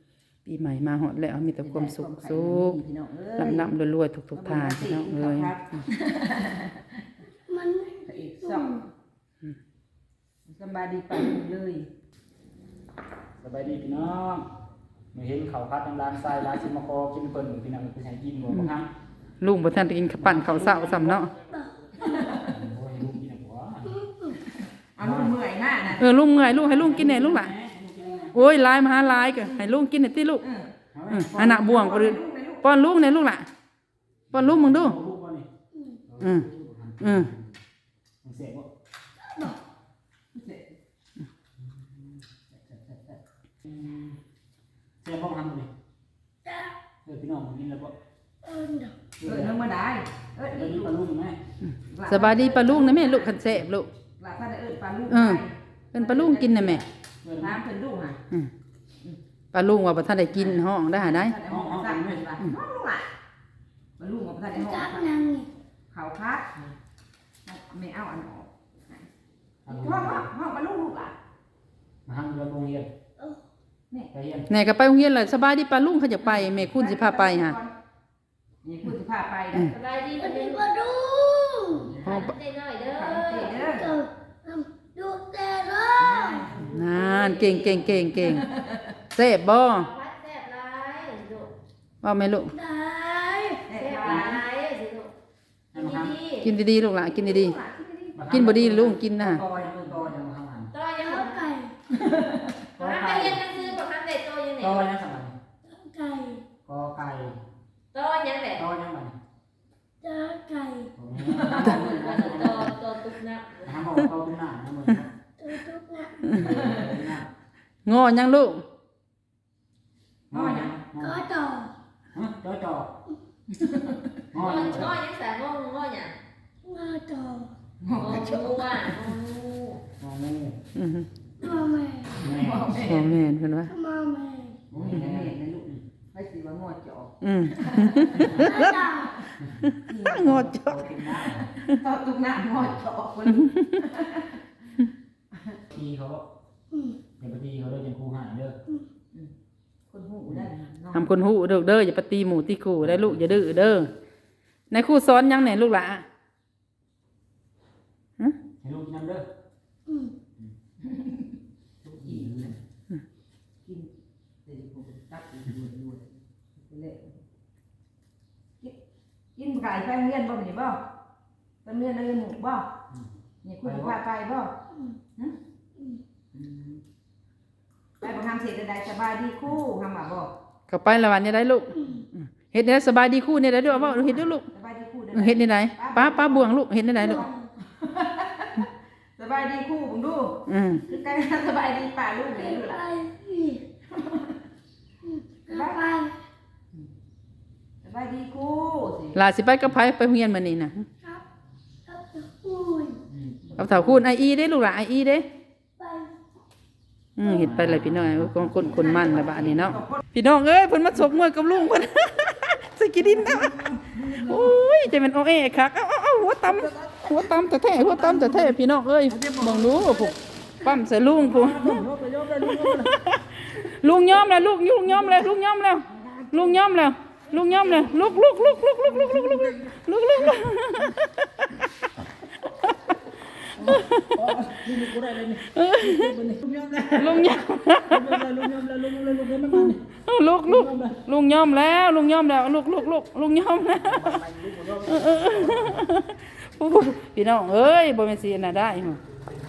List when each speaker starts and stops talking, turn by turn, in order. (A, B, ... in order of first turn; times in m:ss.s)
0:00.4-0:02.8 A
0:01.6-0:03.7 B
0:03.4-0:05.8 A
0:04.3-0:07.0 B
0:07.5-0:08.8 C
0:08.0-0:08.8 B
0:10.4-0:11.9 B
0:13.4-0:14.5 D
0:15.1-0:18.9 D
0:19.4-0:21.3 A
0:20.2-0:21.3 D
0:22.0-0:22.5 B
0:22.4-0:24.0 D
0:24.4-0:26.0 B
0:25.0-0:25.4 D
0:26.0-0:27.5 A
0:26.3-0:28.4 D
0:28.3-0:30.5 A
0:30.4-0:30.7 B
0:30.9-0:31.8 D
0:31.1-0:33.5 A
0:31.6-0:32.6 B
0:34.3-0:35.0 A
0:34.3-0:35.5 D
0:36.1-0:37.5 D
0:36.2-0:36.5 A
0:37.0-0:37.3 A
0:38.2-0:38.7 D
0:39.2-0:39.6 C
0:40.3-0:40.7 B
0:42.5-0:43.2 B
0:43.6-0:44.2 D
0:45.0-0:45.7 D
0:46.4-0:46.7 C
0:47.0-0:47.9 D
0:48.4-0:49.1 C
0:49.2-0:49.6 D
0:49.2-0:51.0 B
0:50.5-0:51.4 D
0:51.6-0:53.9 A
0:51.9-0:53.4 B
0:54.2-0:56.8 B
0:55.1-0:56.8 A
0:57.2-0:57.6 D
0:57.4-0:58.2 B
0:59.5-1:01.4 A
1:00.3-1:03.1 B
1:01.4-1:02.3 D
1:04.0-1:05.2 B
1:04.5-1:05.5 C
1:05.9-1:06.5 B
1:07.4-1:09.1 B
1:09.6-1:10.3 D
1:09.7-1:11.1 B
1:12.0-1:12.9 D
1:14.1-1:14.4 D
1:14.5-1:17.6 A
1:16.2-1:17.7 B
1:18.6-1:19.7 B
1:19.6-1:20.7 E
1:20.2-1:21.9 C
1:22.0-1:23.6 E
1:22.0-1:22.4 A
1:22.9-1:24.0 B
1:23.6-1:26.5 C
1:26.0-1:26.9 B
1:26.6-1:28.5 A
1:26.8-1:27.9 E
1:28.0-1:28.9 B
1:29.1-1:29.9 A
1:29.7-1:31.5 E
1:32.0-1:32.6 A
1:32.5-1:33.7 C
1:33.7-1:34.4 B
1:33.7-1:35.1 E
1:34.1-1:34.3 D
1:35.7-1:36.2 D
1:35.7-1:36.5 E
1:36.4-1:37.6 A
1:37.1-1:38.2 B
1:38.2-1:40.7 D
1:38.3-1:39.4 A
1:40.7-1:41.5 E
1:41.0-1:41.7 C
1:42.7-1:43.4 D
1:42.8-1:44.9 E
1:44.6-1:45.4 D
1:45.7-1:46.4 C
1:46.6-1:47.4 D
1:47.9-1:48.7 E
1:48.6-1:49.2 D
1:50.0-1:50.9 C
1:51.0-1:52.8 D
1:51.2-1:51.8 B
1:51.4-1:53.7 E
1:53.6-1:55.1 D
1:55.4-1:56.4 C
1:56.3-1:57.3 D
1:56.5-1:56.8 B
1:57.8-1:58.6 A
2:00.3-2:01.2 D
2:00.3-2:00.8 B
2:00.9-2:01.7 C
2:02.1-2:02.9 D
2:03.5-2:04.2 B
2:04.3-2:05.0 D
2:04.4-2:06.2 E
2:06.6-2:07.5 C
2:07.8-2:09.0 B
2:07.9-2:09.8 E
2:10.0-2:10.6 D
2:10.7-2:11.1 A
2:11.4-2:12.2 C
2:12.1-2:13.2 B
2:12.2-2:12.7 D
2:12.8-2:13.8 A
2:13.7-2:14.6 C
2:14.7-2:15.8 D
2:14.7-2:19.3 B
2:17.2-2:18.8 A
2:18.2-2:18.5 D
2:18.4-2:19.1 C
2:19.6-2:20.9 A
2:19.8-2:24.4 B
2:20.6-2:21.5 D
2:23.3-2:23.8 A
2:25.7-2:26.3 D
2:27.2-2:28.6 D
2:29.9-2:31.1 B
2:30.9-2:33.9 A
2:32.8-2:33.3 D
2:34.7-2:36.0 A
2:38.6-2:39.3 D
2:40.8-2:41.2 B
2:41.8-2:42.5 B
2:42.0-2:42.6 D
2:43.6-2:43.9 B
2:44.4-2:47.2 B
2:49.3-2:50.8 B
2:51.6-2:52.7 B
2:53.4-2:54.5 B
2:53.6-2:54.0 D
2:54.7-2:55.0 C
2:56.3-2:56.8 B
2:58.0-3:00.3 B
3:00.7-3:04.5 A
3:03.6-3:12.9 B
3:05.1-3:07.3 A
3:10.5-3:10.9 A
3:12.4-3:13.6 C
3:13.9-3:14.4 B
3:15.0-3:16.2 C
3:15.5-3:15.9 B
3:17.8-3:19.2 B
3:19.1-3:20.9 A
3:21.9-3:23.0 C
3:23.1-3:24.0 D
3:23.6-3:25.2 A
3:25.8-3:26.1 C
3:27.2-3:41.8 A
3:27.2-3:29.7 D
3:28.9-3:29.9 B
3:33.0-3:34.5 B
3:37.9-3:38.5 B
3:39.1-3:40.2 D
3:41.1-3:43.0 D
3:42.4-3:51.7 A
3:48.8-3:50.4 D
3:53.4-3:54.1 A
3:53.6-3:59.8 D
3:55.4-3:56.1 A
3:57.0-3:58.3 A
4:00.0-4:04.2 A
4:00.4-4:01.0 D
4:03.7-4:05.9 D
4:04.9-4:09.0 A